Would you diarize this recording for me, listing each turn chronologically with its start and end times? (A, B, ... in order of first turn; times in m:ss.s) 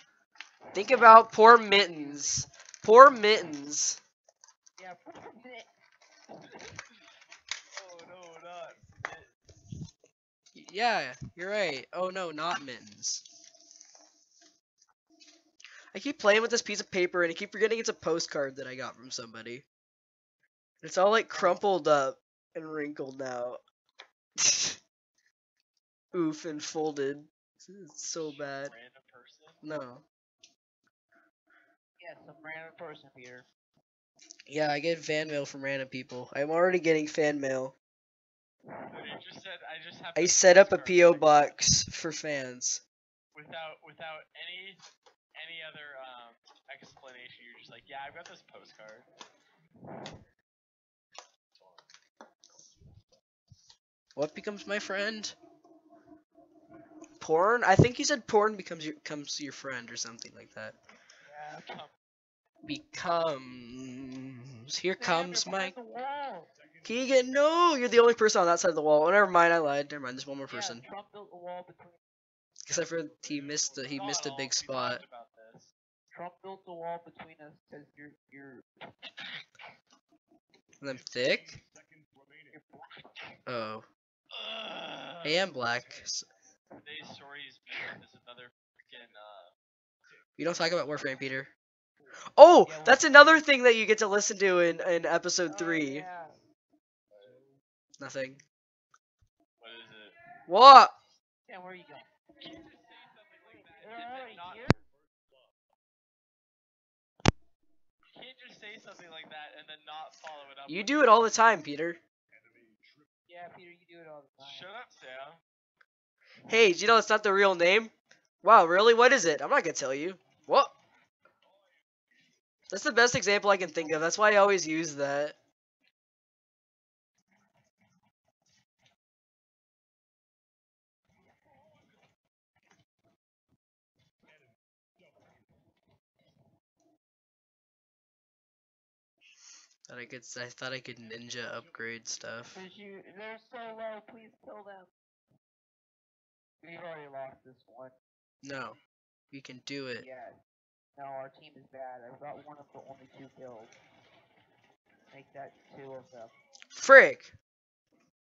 0:00.7-0:02.5 A
0:00.7-0:04.0 B
0:04.8-0:05.7 A
0:06.4-0:06.7 A
0:07.8-0:09.3 C
0:10.5-0:13.2 B
0:15.9-0:19.6 B
0:20.8-0:23.6 B
0:21.3-0:21.6 A
0:24.4-0:24.8 B
0:26.1-0:28.7 B
0:28.2-0:29.6 C
0:29.6-0:30.0 B
0:32.0-0:33.5 A
0:34.5-0:37.7 B
0:38.9-0:41.6 C
0:40.2-0:42.8 B
0:43.3-0:44.8 C
0:45.4-0:49.1 C
0:51.6-0:51.8 C
0:54.2-0:55.4 B
0:57.2-1:00.8 B
1:01.3-1:01.7 A
1:01.4-1:01.9 C
1:02.6-1:05.8 B
1:05.0-1:06.5 A
1:06.8-1:10.8 B
1:10.5-1:12.0 A
1:12.6-1:15.0 B
1:13.9-1:15.7 C
1:16.1-1:18.7 A
1:20.8-1:21.6 B
1:22.5-1:23.4 A
1:23.5-1:23.9 B
1:24.3-1:25.5 C
1:25.2-1:26.3 B
1:26.8-1:29.5 C
1:30.4-1:31.5 B
1:32.4-1:36.0 B
1:32.6-1:33.4 A
1:35.5-1:36.4 A
1:37.1-1:37.4 C
1:38.0-1:38.4 B
1:39.6-1:40.2 C
1:40.5-1:40.9 B
1:41.5-1:42.1 A
1:42.4-1:44.7 C
1:43.8-1:44.9 A
1:48.1-1:51.1 C
1:50.7-1:52.0 B
1:53.3-1:54.7 A
1:54.4-1:55.4 C
1:56.5-1:57.9 B
1:58.4-2:00.8 B
2:02.7-2:05.4 B
2:19.9-2:22.6 B
2:22.5-2:24.9 A
2:26.6-2:27.9 A
2:28.4-2:28.8 B
2:29.3-2:30.1 B
2:30.0-2:30.4 A
2:31.0-2:33.7 A
2:35.1-2:36.3 A
2:36.7-2:37.3 B